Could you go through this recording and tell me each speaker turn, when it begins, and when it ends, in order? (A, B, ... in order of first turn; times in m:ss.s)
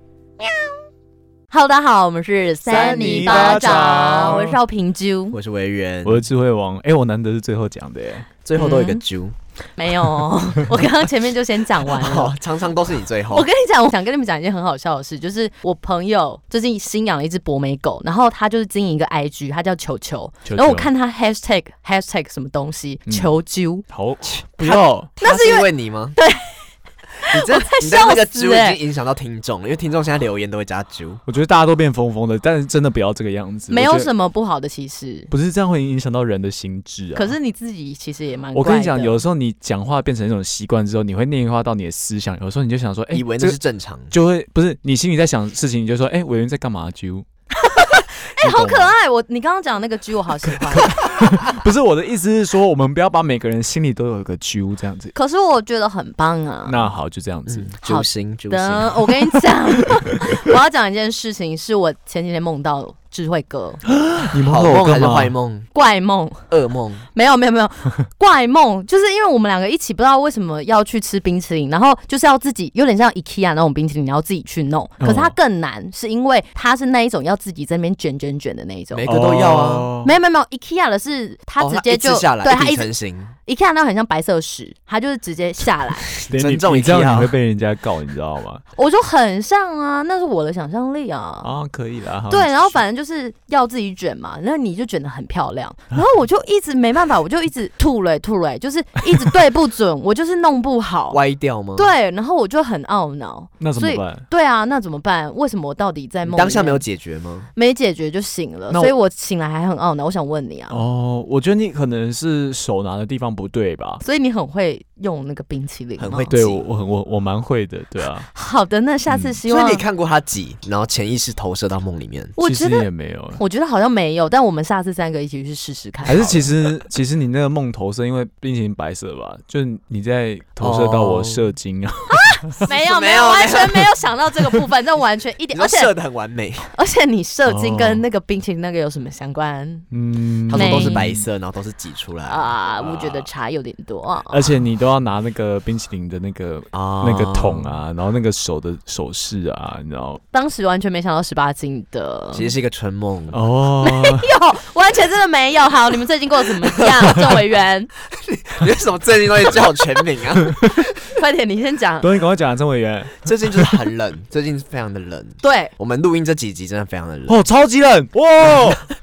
0:01.5-0:05.4 A
0:02.7-0:04.6 B
0:05.3-0:06.2 C
0:06.0-0:08.3 B
0:08.4-0:09.4 C
0:08.6-0:09.0 A
0:09.8-0:12.4 A
0:11.8-0:13.5 C
0:13.3-0:23.8 A
0:20.4-0:20.9 B
0:23.1-0:23.4 B
0:23.9-0:25.1 B
0:24.6-0:26.6 A
0:25.2-0:26.2 C
0:27.2-0:28.8 A
0:27.3-0:31.2 C
0:31.3-0:34.1 B
0:33.7-0:35.3 A
0:35.3-0:37.4 B
0:37.2-0:39.2 A
0:38.6-0:43.6 B
0:43.1-0:44.1 C
0:44.1-0:47.3 B
0:47.5-0:51.0 A
0:48.4-0:48.9 B
0:50.8-0:55.1 B
0:55.2-0:56.8 A
0:56.6-0:57.7 B
0:57.5-0:59.1 C
0:57.8-1:03.8 A
1:03.9-1:05.3 B
1:04.3-1:05.7 C
1:05.7-1:06.5 A
1:06.5-1:07.1 C
1:07.2-1:19.1 A
1:15.0-1:15.4 B
1:18.9-1:19.9 C
1:19.1-1:20.1 B
1:20.0-1:22.9 A
1:21.6-1:23.3 C
1:23.5-1:26.1 A
1:26.2-1:27.3 C
1:26.2-1:28.6 B
1:28.8-1:31.5 A
1:31.4-1:32.8 B
1:32.3-1:41.2 A
1:41.1-1:41.9 C
1:41.8-1:46.8 A
1:43.6-1:44.2 B
1:46.3-1:47.5 C
1:47.6-1:50.8 A
1:50.7-1:54.0 B
1:54.0-1:56.3 A
1:56.0-1:56.6 C
1:56.3-1:58.3 B
1:58.3-1:59.8 A
1:59.1-1:59.4 B
1:59.5-2:02.4 C
2:02.4-2:02.9 A
2:02.4-2:03.4 B
2:03.4-2:06.5 A
2:06.1-2:12.6 B
2:10.6-2:11.5 C
2:12.1-2:15.9 A
2:12.7-2:14.0 C
2:15.5-2:16.7 C
2:16.7-2:19.9 A
2:17.5-2:18.0 B
2:19.9-2:21.2 B
2:20.5-2:22.6 C
2:20.5-2:21.0 A
2:22.2-2:24.6 A
2:22.8-2:23.3 B
2:24.3-2:30.2 B
2:26.7-2:27.8 C
2:30.3-2:32.5 A
2:32.3-2:33.4 C
2:33.3-2:34.3 B
2:33.8-2:37.9 A
2:36.8-2:37.1 C
2:38.1-2:40.8 C
2:40.4-2:40.9 B
2:41.2-2:42.1 A
2:42.0-2:43.9 B
2:43.2-2:47.4 C
2:45.4-2:45.7 A
2:47.3-2:48.8 B